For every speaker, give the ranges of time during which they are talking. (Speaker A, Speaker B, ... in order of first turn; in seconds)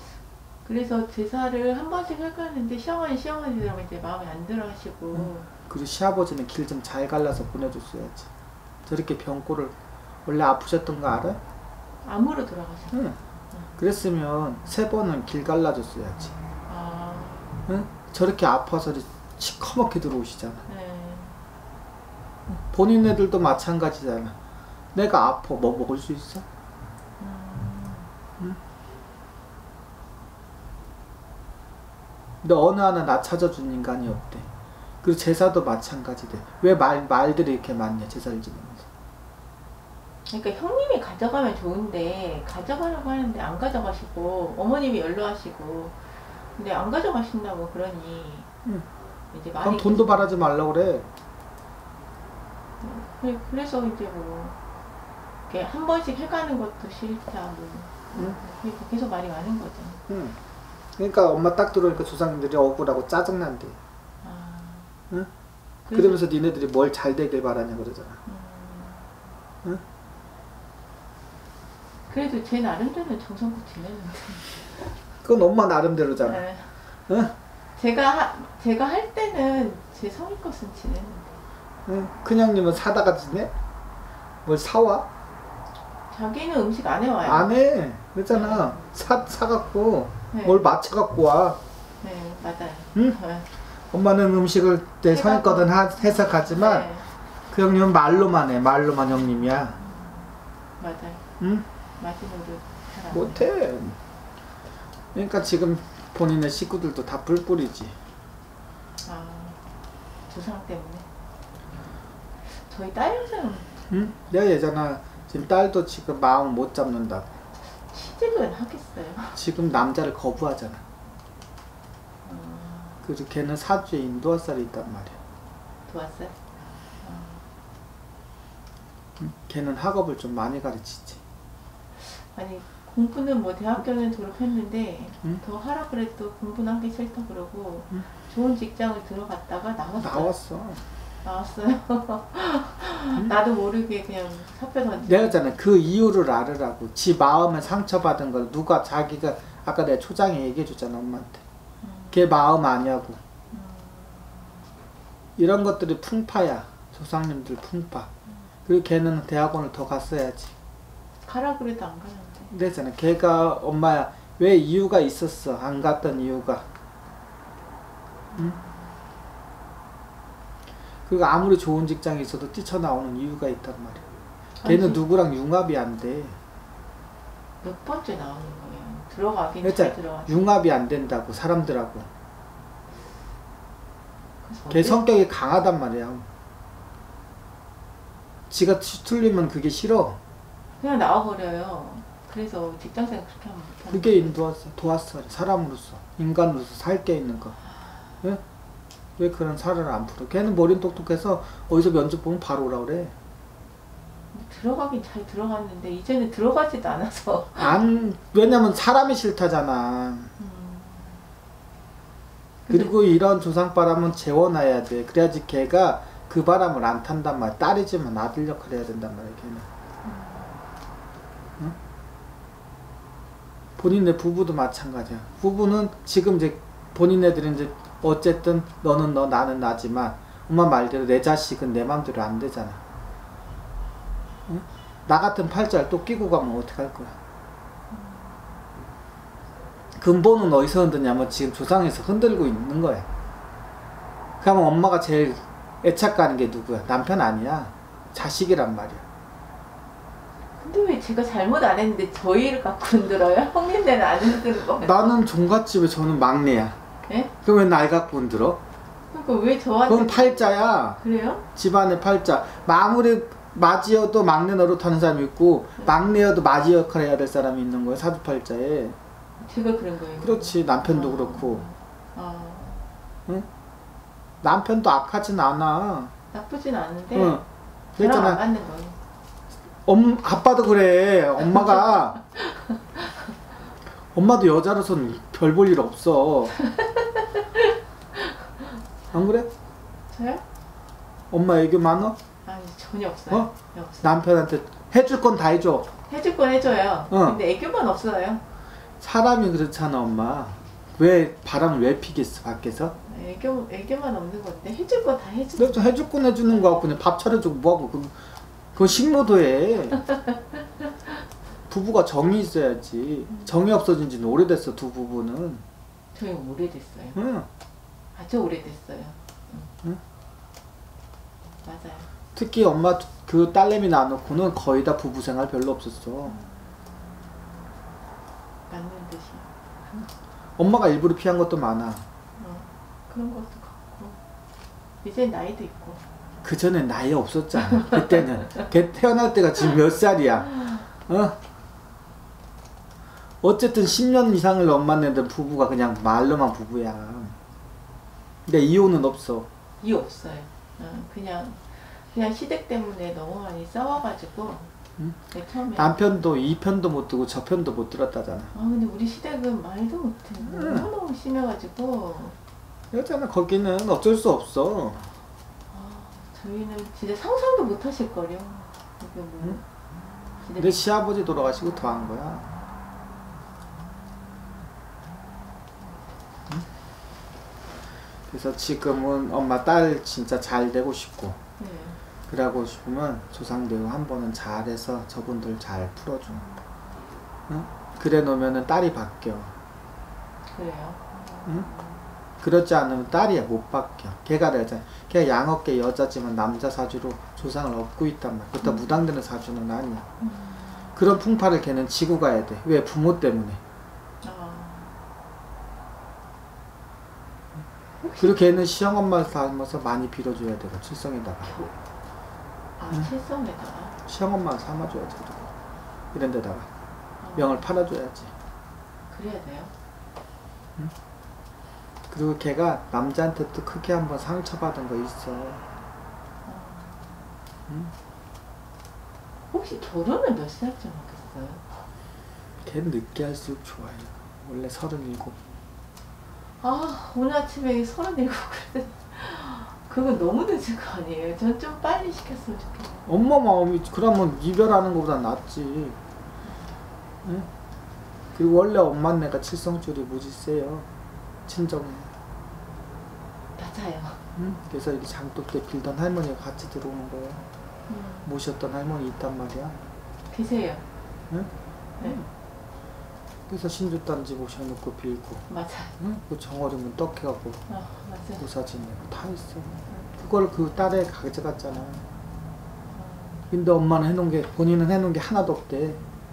Speaker A: 0.7-5.5, 12.0-13.7, 16.7-17.6, 20.7-21.4, 27.2-28.1, 40.3-48.5, 49.3-50.4, 52.8-54.6, 55.5-60.0, 64.2-64.9, 65.9-66.2, 68.3-69.2, 72.1-74.9, 76.2-76.8, 77.8-81.4, 86.1-87.5, 88.3-88.9, 90.3-90.6, 92.0-93.5, 95.1-97.1, 99.8-101.2, 102.0-103.5, 109.0-109.7, 110.3-111.1, 112.4-113.7, 117.8-119.4, 122.2-123.0, 125.9-126.5, 127.0-127.4, 132.0-140.3, 141.2-145.4, 151.8-152.3, 153.5-154.6, 161.2-162.5, 168.4-168.8, 174.6-175.0, 177.6-180.4, 184.4-185.1, 190.8-194.4, 204.3-207.8, 210.4-211.3, 212.7-212.9, 220.0-220.6, 237.9-238.6, 250.6-255.1, 257.1-257.3, 259.1-261.5, 269.4-272.9, 276.3-277.4, 278.0-279.0, 282.4-283.2, 286.6-288.4, 290.1-290.4, 292.4-294.3, 296.1-298.4, 303.1-306.0, 316.1-317.2, 318.1-319.7, 321.6-322.1, 326.3-326.8, 328.7-329.5, 332.4-334.2, 335.0-336.0, 349.8-354.7, 355.3-356.0, 358.5-362.4, 365.7-369.6, 370.4-370.8, 381.6-382.0, 386.3-386.6, 390.5-392.1, 400.2-400.8, 404.2-405.0, 408.0-408.7, 411.4-411.7, 412.8-414.0, 417.2-417.6, 419.1-419.7, 426.4-427.3, 429.5-431.6, 436.6-443.1, 446.4-446.8, 453.6-454.2, 457.9-458.3, 460.3-460.8, 465.5-466.0, 467.7-468.4, 472.9-473.5
Speaker B: 5.1-8.3, 8.9-11.4, 12.9-13.2, 13.8-16.3, 17.7-20.6, 22.5-24.4, 24.9-26.4, 32.4-34.5, 35.0-38.9, 49.6-51.1, 60.1-60.4, 61.0-63.8, 65.9-68.2, 75.2-76.4, 77.1-77.3, 81.9-83.5, 84.5-85.1, 87.2-91.6, 93.9-96.9, 97.5-99.8, 101.4-101.7, 103.1-104.0, 105.1-108.0, 113.9-117.4, 119.3-120.8, 123.0-125.2, 129.2-131.2, 140.0-140.8, 145.0-151.4, 152.1-153.2, 155.4-158.1, 158.7-160.5, 162.5-166.7, 171.1-174.1, 174.7-176.4, 179.6-182.1, 184.7-186.3, 188.5-190.2, 193.9-197.6, 199.2-203.2, 207.6-210.3, 212.7-219.7, 223.8-232.8, 234.5-237.2, 240.0-243.1, 244.4-249.0, 254.8-256.8, 257.4-258.6, 259.9-261.0, 261.6-269.0, 270.2-271.7, 274.4-276.1, 277.1-277.4, 278.0-278.4, 279.9-282.2, 284.1-286.6, 289.1-289.5, 291.3-292.2, 293.3-295.9, 297.1-297.4, 299.0-302.9, 305.6-308.2, 308.8-310.1, 311.7-315.6, 317.1-317.5, 322.3-326.4, 330.6-332.1, 336.4-341.4, 343.4-347.4, 348.5-349.5, 355.8-358.5, 360.4-360.9, 362.9-365.1, 370.6-372.5, 378.3-381.4, 382.3-386.4, 387.5-389.5, 392.4-400.1, 401.0-403.6, 408.2-411.6, 414.1-415.5, 416.1-416.7, 417.4-418.3, 422.1-425.6, 427.7-427.9, 432.6-435.4, 443.1-446.0, 447.2-447.5, 448.3-450.9, 451.5-452.1, 454.4-457.4, 458.2-459.8, 461.3-462.3, 463.5-465.5, 466.0-467.6, 468.4-472.1, 473.5-476.0